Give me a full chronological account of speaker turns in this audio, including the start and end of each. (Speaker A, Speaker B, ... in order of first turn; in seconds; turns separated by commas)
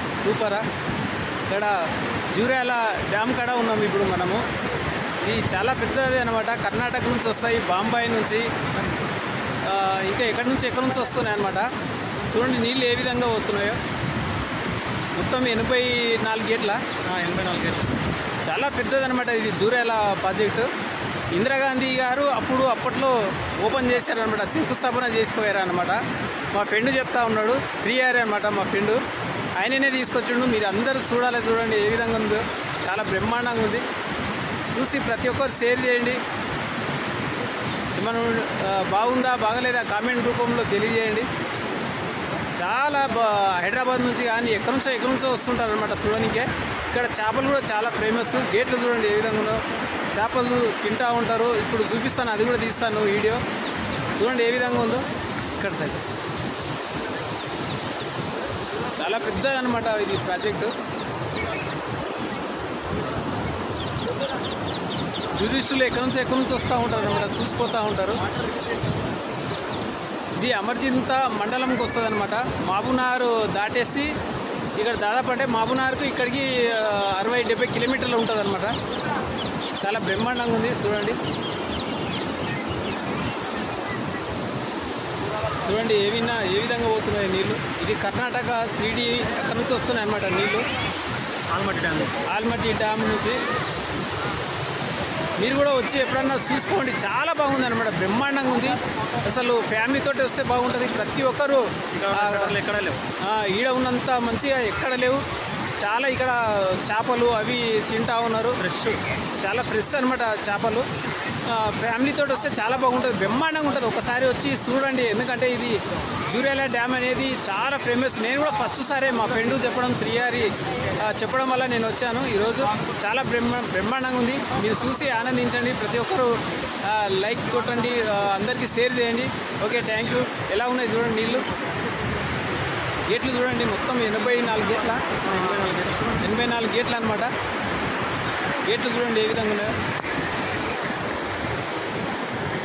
Speaker A: 0.2-0.6, Speaker A: 1.5-1.8, Speaker A: 2.3-4.4, Speaker A: 5.2-8.5, Speaker A: 9.6-11.7, Speaker A: 12.2-13.8, Speaker A: 15.2-16.8, Speaker B: 17.0-17.9, Speaker A: 18.4-20.7, Speaker A: 21.3-29.0, Speaker A: 29.6-33.8, Speaker A: 34.7-36.2, Speaker A: 37.9-41.3, Speaker A: 42.6-53.4, Speaker A: 54.1-56.0, Speaker A: 59.0-60.7, Speaker A: 65.3-68.2, Speaker A: 70.4-74.2, Speaker A: 74.8-78.8, Speaker A: 79.8-81.2, Speaker A: 85.5-90.6, Speaker B: 91.5-92.2, Speaker A: 92.2-93.4, Speaker A: 95.4-102.5, Speaker B: 102.0-103.0, Speaker A: 103.2-105.2, Speaker A: 105.8-108.6, Speaker B: 108.6-109.0, Speaker A: 109.4-110.8, Speaker A: 111.5-131.5, Speaker A: 133.1-135.2, Speaker B: 135.2-136.2, Speaker A: 136.2-137.3, Speaker A: 138.6-139.7